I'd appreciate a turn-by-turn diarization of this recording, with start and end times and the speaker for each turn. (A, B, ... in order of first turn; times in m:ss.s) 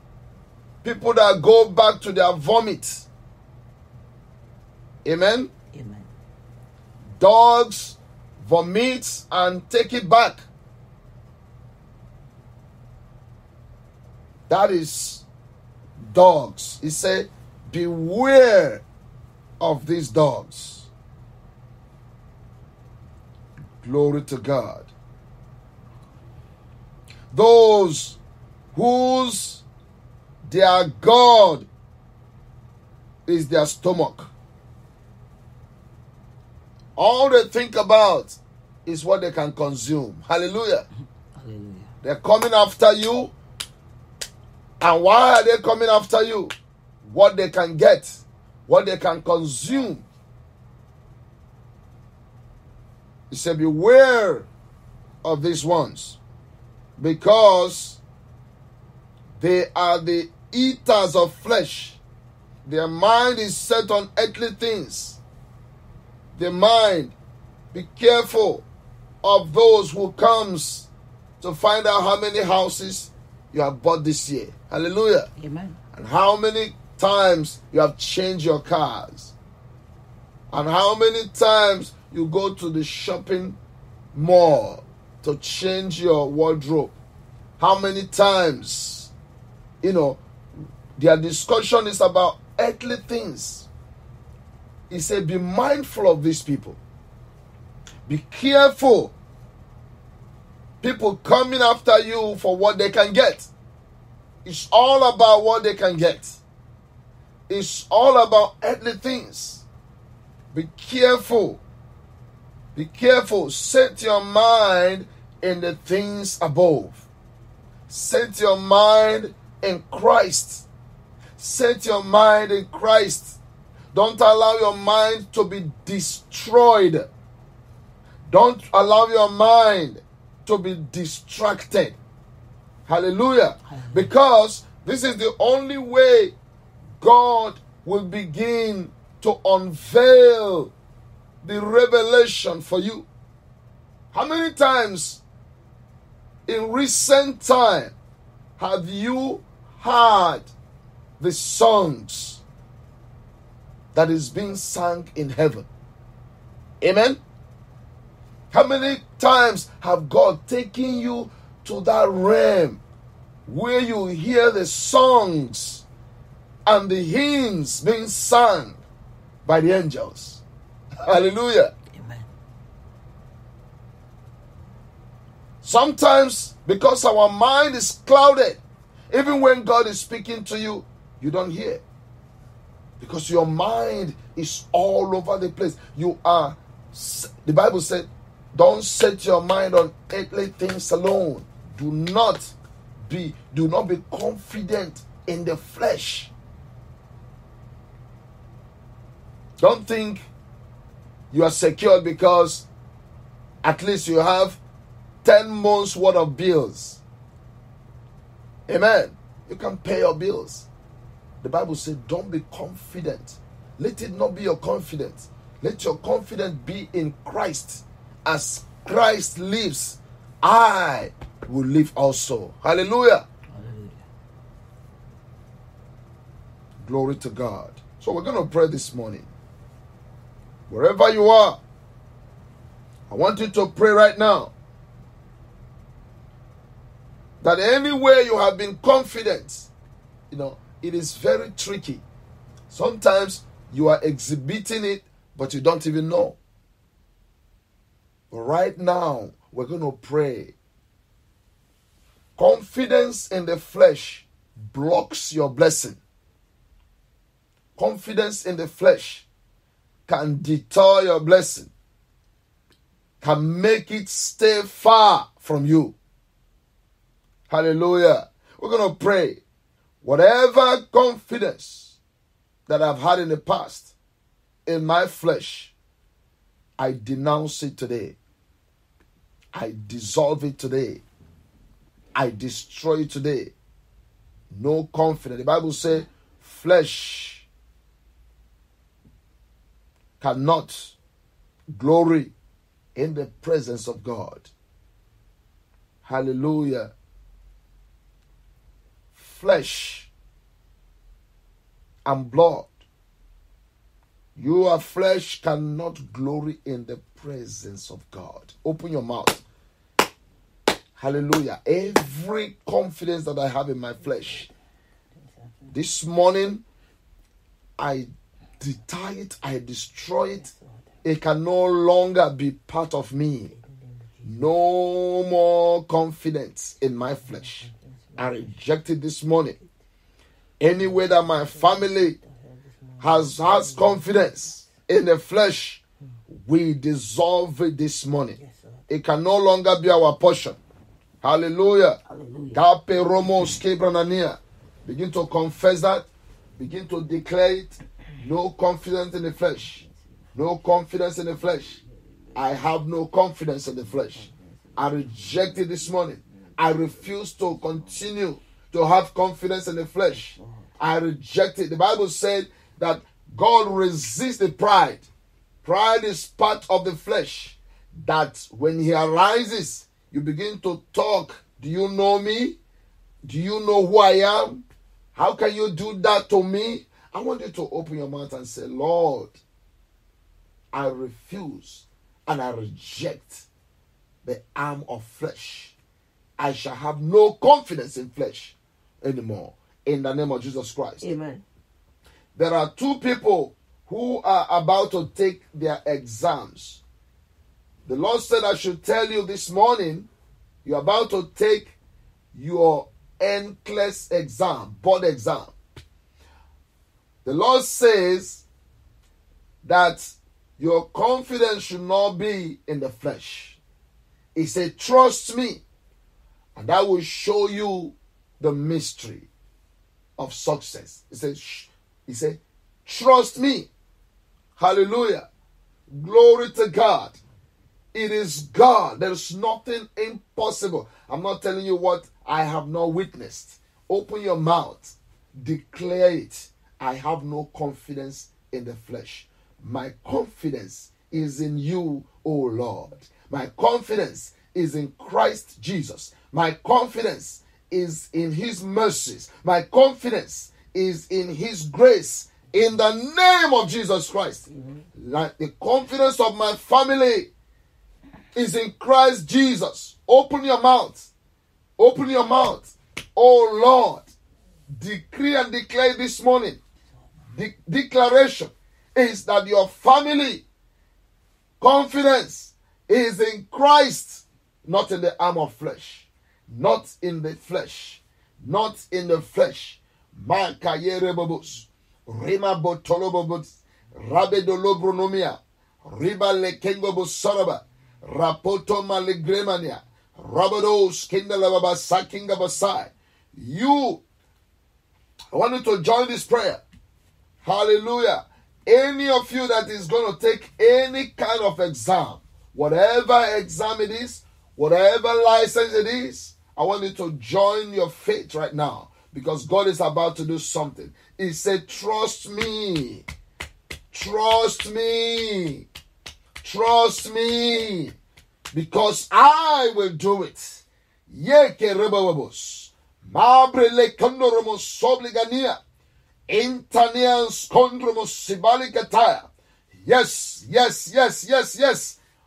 0:00.8-0:03.1 A
0:05.0-0:05.5 A
0:05.7-0:06.1 B
0:07.2-0:10.5 A
0:14.5-0:15.2 A
0:16.0-0:18.8 A
0:19.6-0:20.9 A
0:23.8-0:24.9 A
0:27.3-0:28.2 A
0:28.7-0:29.6 A
0:30.4-0:31.7 A
0:33.2-0:34.3 A
0:37.0-0:40.9 A
0:41.4-0:41.9 B
0:42.0-0:43.3 A
0:44.8-0:50.0 A
0:53.3-0:54.5 A
0:55.2-0:56.2 A
0:57.0-0:58.0 A
0:59.4-1:02.0 A
1:02.6-1:05.2 A
1:06.4-1:07.1 A
1:07.7-1:08.6 A
1:09.2-1:10.9 A
1:11.4-1:15.3 A
1:15.4-1:15.8 B
1:15.9-1:19.3 A
1:20.5-1:23.6 A
1:24.1-1:27.0 A
1:27.6-1:29.1 A
1:29.8-1:30.2 A
1:31.0-1:33.7 A
1:34.9-1:36.8 A
1:38.1-1:39.1 A
1:40.8-1:43.5 A
1:44.4-1:46.4 A
1:47.5-1:49.6 A
1:50.5-1:51.6 A
1:52.8-1:57.1 A
1:57.9-2:00.6 A
2:01.4-2:03.4 A
2:03.9-2:07.1 A
2:08.3-2:12.0 A
2:12.9-2:16.4 A
2:13.7-2:14.1 B
2:17.0-2:20.7 A
2:21.4-2:23.1 A
2:24.1-2:25.2 A
2:26.5-2:28.0 A
2:28.6-2:30.5 A
2:31.2-2:32.4 A
2:33.9-2:35.7 A
2:36.8-2:37.2 A
2:38.5-2:42.8 A
2:43.5-2:45.8 A
2:46.6-2:48.8 A
2:49.4-2:50.4 A
2:51.0-2:51.7 A
2:51.9-2:52.3 B
2:55.6-3:01.8 A
3:03.0-3:12.5 A
3:13.1-3:16.3 A
3:19.6-3:20.3 A
3:21.3-3:22.7 A
3:23.6-3:24.6 A
3:25.2-3:27.0 A
3:28.7-3:30.7 A
3:31.4-3:43.2 A
3:43.5-3:44.0 B
3:46.8-3:49.3 A
3:50.7-3:51.6 A
3:53.1-3:54.5 A
3:57.4-3:59.7 A
4:00.3-4:02.0 A
4:02.7-4:06.4 A
4:08.3-4:10.5 A
4:12.4-4:16.0 A
4:17.8-4:19.2 A
4:20.1-4:21.7 A
4:23.2-4:26.0 A
4:27.5-4:29.4 A
4:30.0-4:32.0 A
4:32.7-4:33.9 A
4:34.7-4:35.7 A
4:36.8-4:38.2 A
4:39.5-4:41.0 A
4:42.2-4:43.5 A
4:44.5-4:47.5 A
4:50.2-4:51.0 A
4:51.8-4:52.3 A
4:53.0-4:54.5 A
4:56.0-4:56.9 A
4:59.2-5:00.1 A
5:02.0-5:02.7 A
5:04.4-5:09.4 A
5:11.0-5:14.5 A
5:14.0-5:14.5 B
5:15.1-5:15.8 B
5:15.7-5:16.6 A
5:17.8-5:20.5 A
5:20.3-5:20.9 B
5:21.0-5:23.5 A
5:23.5-5:24.5 B
5:24.2-5:29.6 A
5:27.0-5:28.6 B
5:30.6-5:32.2 A
5:30.8-5:34.7 B
5:33.0-5:38.4 A
5:38.4-5:38.8 B
5:38.9-5:40.6 A
5:41.2-5:42.0 A
5:42.0-5:42.6 B
5:42.5-5:49.8 A
5:49.6-5:50.1 B
5:50.3-5:51.8 A
5:51.8-5:52.7 B
5:52.3-6:05.1 A
5:53.8-5:58.0 B
6:00.1-6:00.8 B
6:05.6-6:12.6 A
6:13.2-6:14.6 A
6:15.2-6:19.4 A
6:20.7-6:23.5 A
6:24.2-6:25.8 A
6:26.4-6:31.1 A
6:31.0-6:31.4 B
6:32.3-6:36.8 A
6:37.8-6:40.1 A
6:40.6-6:41.8 A
6:42.3-6:45.5 A
6:47.2-6:48.4 A
6:49.6-6:53.6 A
6:54.3-6:55.6 A
6:56.6-6:59.3 A
7:00.2-7:03.7 A
7:04.6-7:05.2 A
7:05.9-7:07.2 A
7:07.9-7:37.3 A
7:34.5-7:34.9 B
7:38.3-7:41.1 A
7:41.8-7:44.1 A
7:44.7-7:46.6 A
7:47.3-7:50.4 A
7:51.6-8:14.0 A
8:15.3-8:16.6 A
8:17.4-8:33.0 A
8:33.9-8:35.7 A
8:36.4-8:38.0 A
8:38.5-8:45.6 A
8:46.3-8:49.3 A
8:49.8-8:52.0 A